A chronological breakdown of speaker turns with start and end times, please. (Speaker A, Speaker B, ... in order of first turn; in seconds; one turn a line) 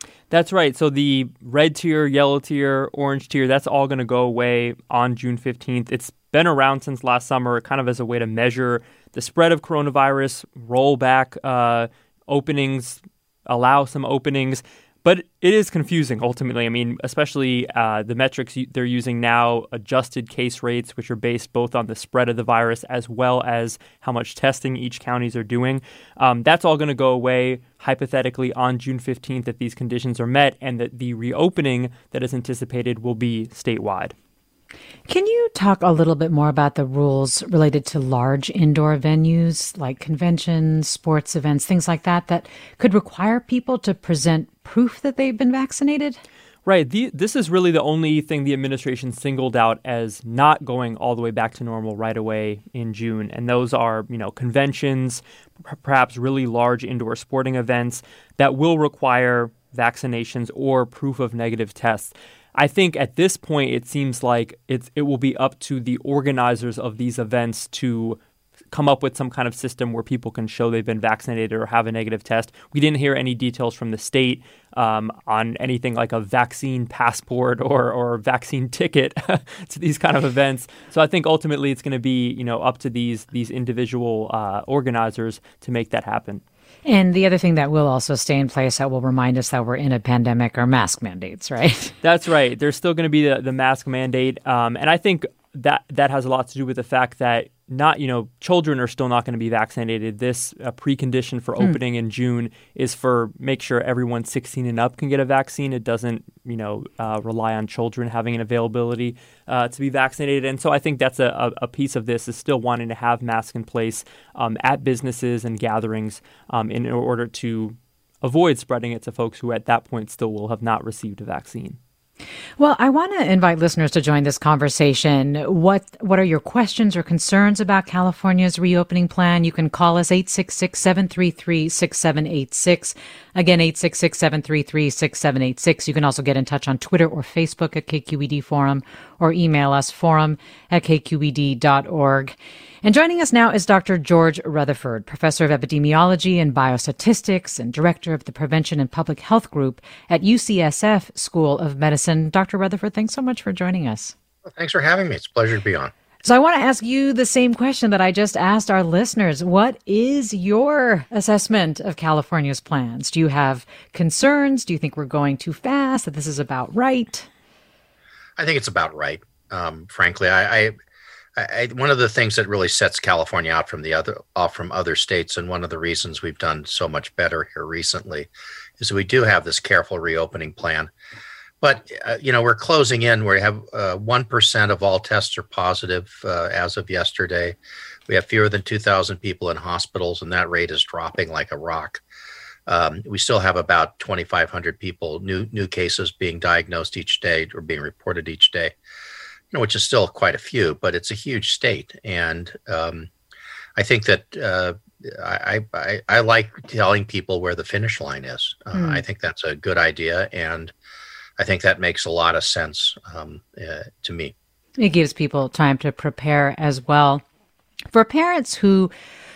Speaker A: 0.3-34.1
Speaker B: 35.1-46.2
Speaker A: 46.6-68.2
Speaker A: 68.7-86.4
Speaker B: 86.8-91.9
Speaker A: 92.0-121.8
Speaker B: 122.6-154.1
Speaker C: 154.4-155.9
Speaker B: 156.2-167.3
Speaker C: 168.4-170.7
Speaker C: 171.4-180.9
Speaker C: 181.6-187.6
Speaker C: 188.1-192.0
Speaker C: 192.7-198.7
Speaker C: 199.5-203.1
Speaker C: 203.8-210.7
Speaker B: 208.7-209.0
Speaker C: 211.4-214.3
Speaker B: 214.8-217.2
Speaker B: 217.9-218.9